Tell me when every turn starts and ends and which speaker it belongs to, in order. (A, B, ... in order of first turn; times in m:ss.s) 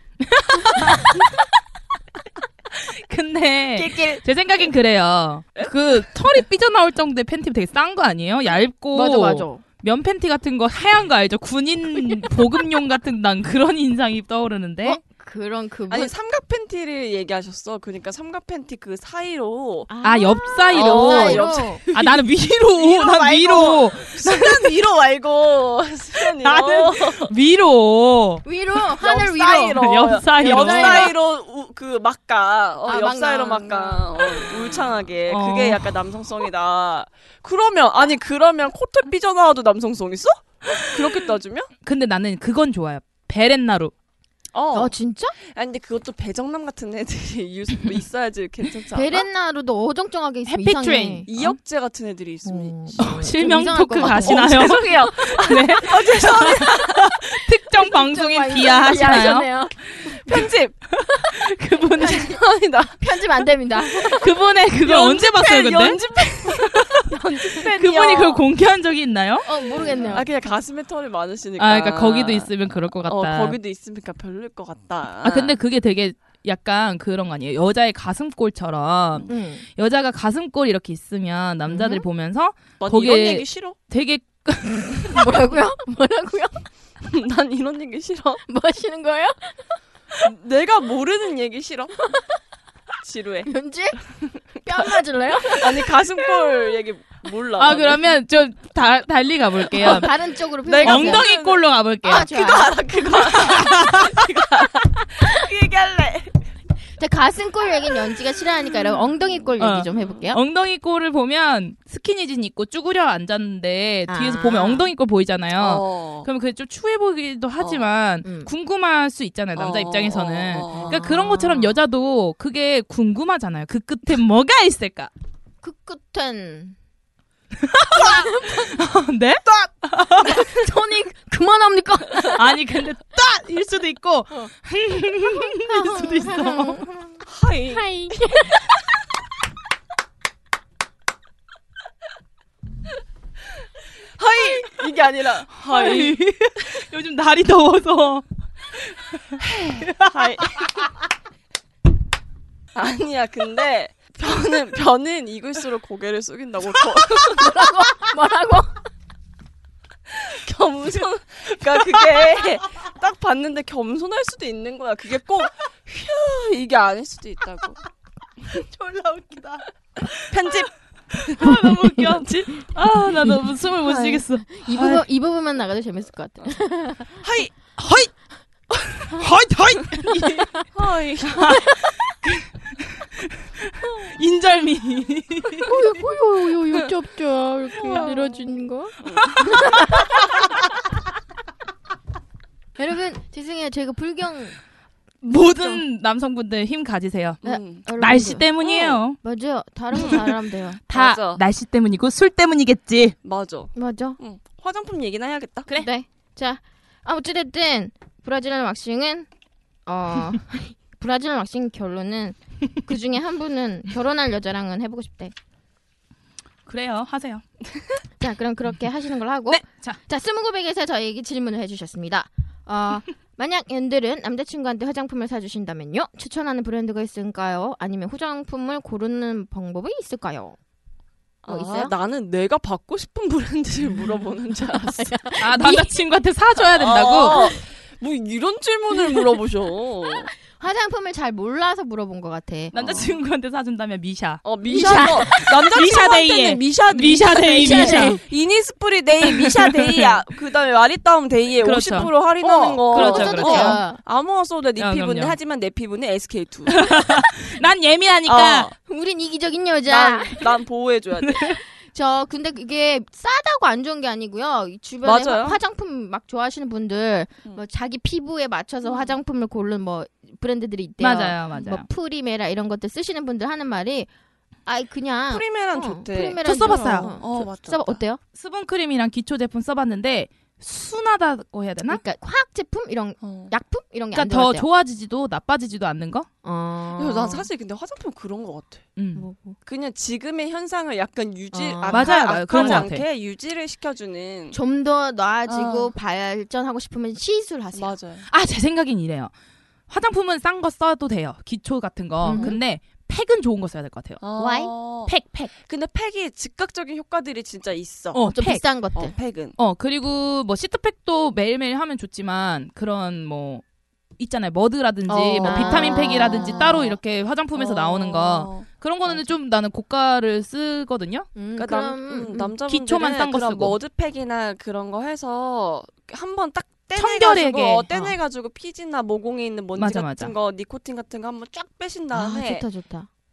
0:00.3-0:01.1 A
0:02.7-0:15.0 A
0:05.6-0:06.0 B
0:08.9-0:09.6 C
0:14.8-0:16.1 C
0:15.9-0:19.9 B
0:19.9-0:21.8 C
0:20.0-0:24.7 A
0:20.7-0:27.3 B
0:26.2-0:28.4 A
0:28.4-0:31.1 C
0:29.0-0:41.7 B
0:29.8-0:31.1 A
0:32.9-0:34.8 C
0:35.3-0:35.9 A
0:41.8-0:43.9 A
0:44.5-0:49.2 B
0:44.7-0:45.3 C
0:48.9-0:51.3 C
0:50.5-0:51.6 A
0:51.3-0:56.8 B
0:52.4-0:55.7 C
0:53.0-0:59.5 A
0:56.4-1:00.5 C
1:00.0-1:00.9 B
1:01.1-1:02.3 A
1:02.0-1:02.4 C
1:02.0-1:03.1 B
1:03.0-1:04.3 C
1:04.1-1:06.0 A
1:04.8-1:08.4 B
1:06.7-1:07.0 A
1:07.6-1:09.5 A
1:09.4-1:10.4 C
1:09.6-1:15.6 B
1:11.6-1:13.6 A
1:15.2-1:25.1 A
1:19.3-1:19.6 C
1:21.7-1:22.0 C
1:22.8-1:23.8 B
1:25.1-1:26.6 C
1:27.0-1:28.4 B
1:28.5-1:29.6 C
1:30.2-1:32.1 B
1:33.0-1:33.5 B
1:33.4-1:36.8 C
1:34.5-1:38.1 B
1:37.6-1:40.1 A
1:39.7-1:41.3 C
1:39.8-1:40.1 B
1:40.6-1:41.7 B
1:40.8-1:42.3 A
1:42.0-1:43.0 C
1:42.3-1:46.4 B
1:43.4-1:44.0 A
1:47.0-1:50.4 C
1:49.6-2:05.1 A
1:49.9-1:50.2 B
1:54.1-1:54.9 C
1:55.6-1:56.3 B
1:57.6-1:57.8 B
1:58.2-1:58.5 C
1:59.6-2:01.0 B
2:00.6-2:01.8 C
2:05.6-2:06.8 C
2:07.6-2:10.3 A
2:07.9-2:08.7 C
2:10.2-2:12.4 C
2:12.3-2:16.8 A
2:15.2-2:18.7 C
2:17.2-2:17.9 B
2:24.2-2:26.2 B
2:25.6-2:28.2 A
2:28.9-2:30.1 A
2:29.4-2:30.8 B
2:32.7-2:37.6 B
2:37.3-2:38.8 C
2:40.2-2:47.8 B
2:48.5-2:50.3 A
2:50.3-2:50.7 B
2:51.2-2:55.0 A
2:51.4-2:52.0 C
2:52.0-2:52.7 B
2:53.9-2:54.2 B
2:54.5-2:57.2 C
2:57.2-2:57.5 B
2:57.4-2:58.1 A
2:58.9-3:00.6 A
3:00.1-3:00.6 C
3:00.7-3:01.6 B
3:01.3-3:02.5 A
3:01.5-3:01.9 C
3:04.0-3:05.7 A
3:05.6-3:10.2 C
3:07.8-3:09.7 B
3:12.8-3:14.6 C
3:15.2-3:17.4 A
3:17.4-3:17.9 B
3:17.4-3:18.5 C
3:18.0-3:19.2 A
3:18.6-3:19.0 B
3:19.2-3:20.8 C
3:19.9-3:20.2 B
3:20.9-3:23.1 A
3:20.9-3:21.4 B
3:23.2-3:25.7 B
3:23.7-3:24.2 C
3:25.8-3:29.3 C
3:29.8-3:35.3 C
3:36.6-3:37.5 A
3:38.2-3:50.6 C
3:39.5-3:40.0 A
3:51.4-3:55.1 B
3:51.4-3:51.9 C
3:54.7-3:55.9 C
3:55.4-3:57.5 A
3:56.8-4:00.3 B
3:59.0-3:59.3 C
4:00.4-4:03.0 C
4:02.7-4:08.2 A
4:02.7-4:03.2 B
4:04.4-4:17.0 B
4:04.6-4:05.9 C
4:07.2-4:08.2 C
4:09.4-4:10.0 A
4:11.6-4:13.8 A
4:11.9-4:14.0 C
4:14.8-4:15.4 A
4:16.7-4:18.7 A
4:18.3-4:18.7 B
4:18.8-4:20.6 C
4:19.9-4:21.5 B
4:21.3-4:21.6 A
4:21.7-4:34.1 C
4:25.0-4:25.6 B
4:28.8-4:29.1 B
4:31.0-4:31.8 A
4:34.6-4:38.2 C
4:35.3-4:38.0 B
4:36.4-4:37.1 A
4:38.3-4:42.0 A
4:41.9-4:44.7 C
4:43.2-4:43.5 B
4:44.1-4:46.3 A
4:46.4-4:47.5 C
4:47.0-4:48.9 B
4:49.0-4:49.2 A
4:49.1-4:49.6 C
4:49.6-4:54.6 B
4:51.5-4:52.9 C
4:51.9-4:53.0 A
4:54.5-4:58.0 C
4:55.5-4:55.9 B
4:57.7-4:58.3 B
4:58.3-4:59.3 A
4:59.9-5:04.2 A
5:02.2-5:02.6 C
5:02.3-5:02.6 B
5:04.2-5:08.2 B
5:04.4-5:04.7 C
5:05.0-5:05.5 A
5:08.1-5:08.6 A
5:08.2-5:09.1 C
5:08.9-5:09.6 B
5:09.6-5:13.6 A
5:14.2-5:21.3 A
5:15.1-5:16.6 B
5:15.4-5:17.0 C
5:17.5-5:18.7 B
5:21.3-5:22.4 C
5:21.6-5:32.7 B
5:22.7-5:23.8 A
5:26.9-5:27.9 A
5:29.7-5:30.3 A
5:32.1-5:33.1 C